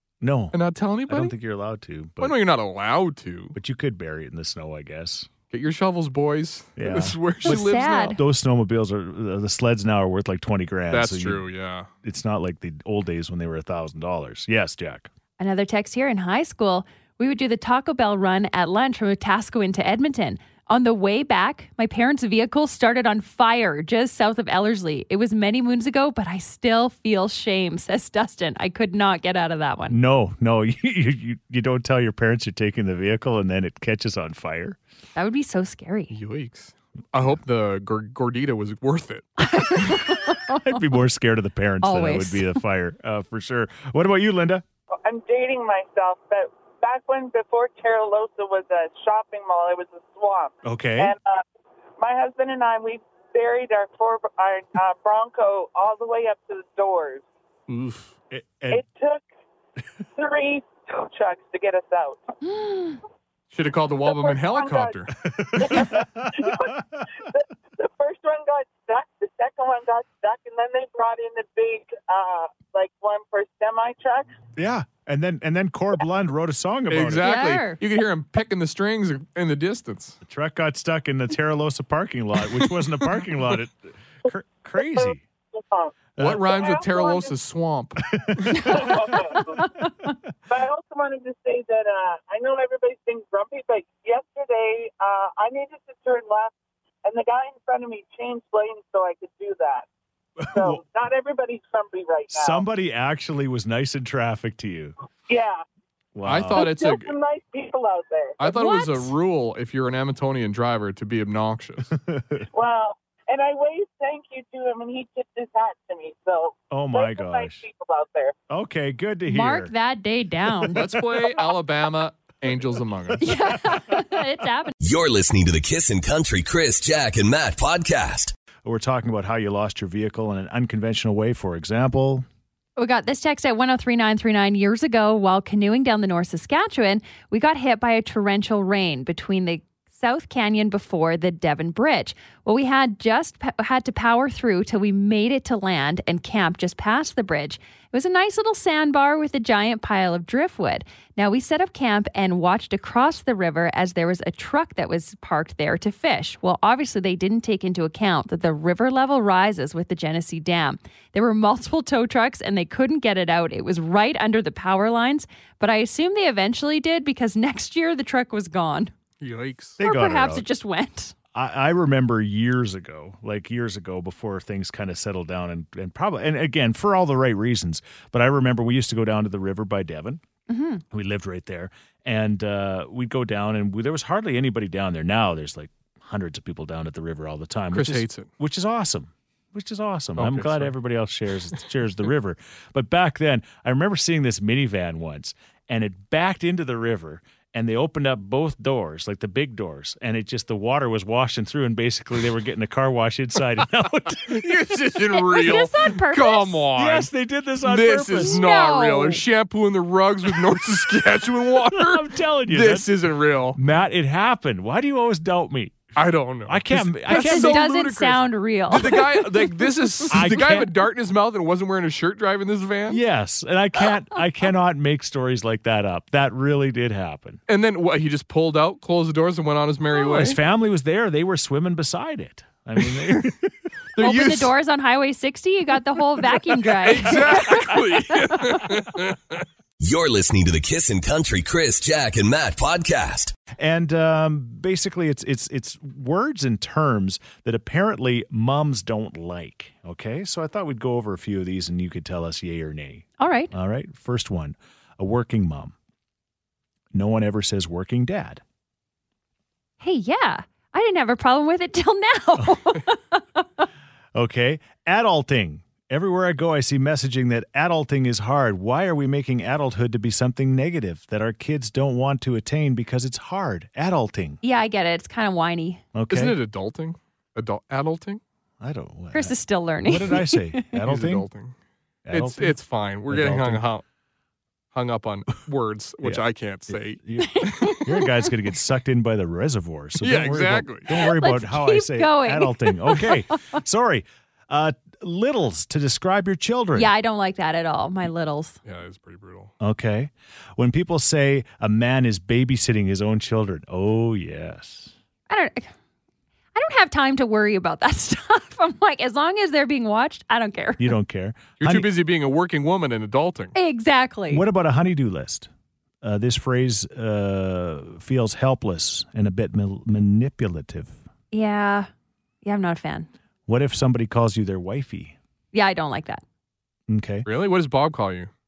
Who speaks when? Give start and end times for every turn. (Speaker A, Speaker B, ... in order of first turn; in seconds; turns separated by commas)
Speaker A: 0.2-2.4, Speaker B: 0.5-1.3, Speaker B: 2.2-3.5, Speaker A: 3.5-5.3, Speaker B: 5.5-8.2, Speaker A: 6.8-11.4, Speaker C: 7.4-8.2, Speaker B: 10.9-11.9, Speaker A: 12.0-15.1, Speaker C: 15.4-30.0, Speaker A: 29.9-34.8, Speaker C: 35.1-36.1, Speaker B: 36.1-39.4, Speaker C: 39.4-40.8, Speaker A: 39.9-44.6, Speaker C: 41.8-42.6, Speaker D: 45.0-51.4, Speaker A: 50.6-51.1, Speaker D: 52.0-57.2, Speaker B: 57.7-58.1, Speaker A: 58.3-58.8, Speaker D: 58.7-59.2, Speaker D: 60.1-62.2, Speaker C: 62.4-63.0, Speaker B: 63.5-65.1, Speaker D: 64.0-74.3, Speaker A: 65.2-67.0, Speaker A: 74.6-77.3, Speaker B: 76.9-80.2, Speaker C: 77.2-77.8, Speaker A: 80.2-85.2, Speaker D: 84.9-87.3, Speaker A: 86.2-86.5, Speaker B: 86.2-88.5, Speaker A: 88.1-89.0, Speaker C: 88.5-89.0, Speaker D: 88.5-89.7, Speaker C: 89.5-90.1, Speaker D: 90.5-99.9, Speaker A: 100.4-100.8, Speaker D: 100.4-102.6, Speaker A: 102.3-104.9, Speaker D: 105.3-105.6, Speaker A: 106.1-106.7, Speaker B: 106.2-107.1, Speaker D: 106.5-108.4, Speaker B: 108.4-111.9, Speaker C: 108.4-109.1, Speaker A: 111.9-112.5, Speaker D: 112.5-118.3, Speaker A: 116.7-117.6, Speaker A: 118.5-119.7, Speaker C: 119.2-120.8, Speaker B: 120.7-123.3, Speaker C: 123.2-124.7, Speaker E: 124.8-128.3, Speaker A: 128.6-132.2, Speaker C: 132.8-168.9, Speaker B: 169.2-169.8, Speaker A: 169.8-170.4, Speaker C: 169.8-171.1, Speaker A: 171.3-180.2, Speaker C: 180.5-180.8, Speaker A: 180.9-204.7, Speaker B: 187.7-188.3, Speaker B: 190.2-190.7, Speaker B: 204.2-207.1, Speaker C: 205.1-206.7, Speaker A: 206.7-208.4, Speaker B: 207.6-213.6, Speaker C: 208.2-209.2, Speaker A: 211.6-212.9, Speaker A: 213.5-215.8, Speaker B: 215.9-223.0, Speaker A: 216.5-217.7, Speaker C: 217.1-219.5, Speaker A: 220.1-220.7, Speaker A: 222.9-227.4, Speaker B: 227.5-230.4, Speaker A: 229.9-233.5, Speaker B: 233.9-234.5, Speaker C: 234.0-237.8, Speaker B: 236.8-239.4, Speaker E: 239.8-243.3, Speaker A: 243.6-255.7, Speaker C: 253.2-253.5, Speaker A: 256.9-258.4, Speaker C: 259.8-263.6, Speaker A: 264.1-274.4, Speaker C: 274.4-275.8, Speaker A: 275.9-276.4, Speaker B: 276.1-278.2, Speaker A: 278.6-281.3, Speaker C: 279.1-280.7, Speaker B: 280.8-281.5, Speaker A: 282.1-283.6, Speaker B: 282.1-283.8, Speaker B: 284.7-287.9, Speaker A: 286.0-296.9, Speaker C: 287.2-288.1, Speaker B: 290.0-290.9, Speaker C: 290.9-293.2, Speaker C: 296.7-298.6, Speaker B: 298.6-299.5, Speaker A: 299.6-304.9, Speaker C: 305.3-305.7, Speaker C: 306.5-310.9, Speaker A: 310.8-311.9, Speaker B: 311.6-313.5, Speaker C: 313.5-314.4, Speaker A: 314.3-315.5, Speaker A: 316.0-321.0, Speaker C: 321.3-321.9, Speaker C: 322.4-323.1, Speaker A: 323.5-325.2, Speaker C: 325.5-326.2, Speaker A: 326.9-327.3, Speaker B: 327.2-328.3